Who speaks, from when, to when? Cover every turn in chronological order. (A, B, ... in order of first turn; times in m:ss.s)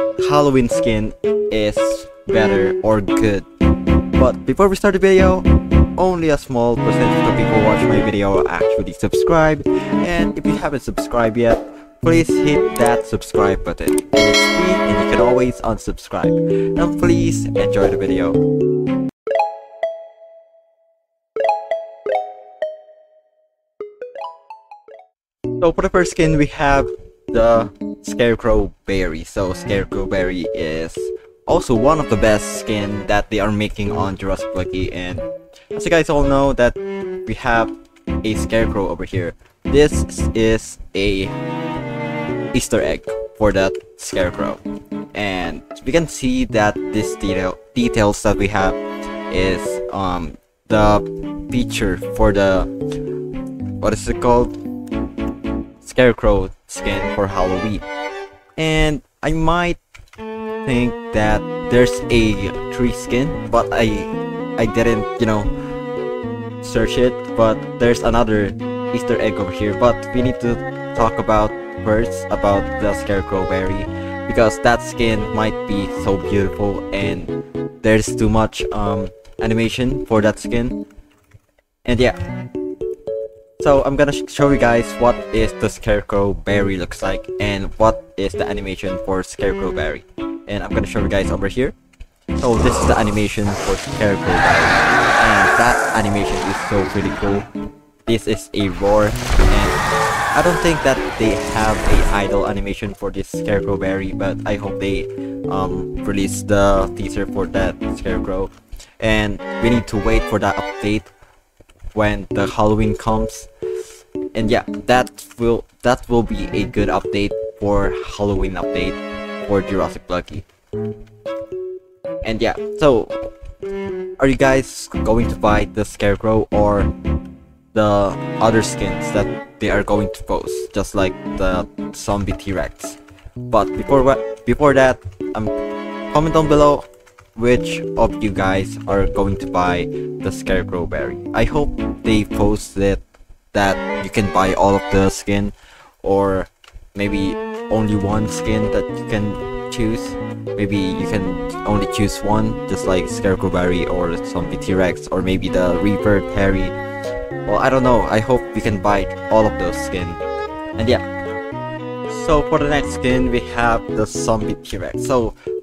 0:00.2-0:03.5 A
0:04.2-0:18.4 A
0:25.6-0:41.3 A
0:42.5-0:44.6 A
0:45.1-0:52.7 A
0:53.8-0:54.6 A
0:55.8-0:57.9 A
0:58.6-0:59.8 A
1:00.6-1:05.5 A
1:06.6-1:20.8 A
1:21.9-1:22.2 A
1:23.6-1:31.8 A
1:32.4-1:37.5 A
1:38.1-1:39.8 A
1:40.3-1:51.1 A
1:51.9-1:53.5 A
1:54.4-2:00.5 A
2:02.2-2:03.3 A
2:04.2-2:06.9 A
2:07.7-2:15.5 A
2:16.1-2:23.0 A
2:23.5-2:36.8 A
2:37.5-2:40.2 A
2:40.8-2:41.0 A
2:42.1-2:45.4 A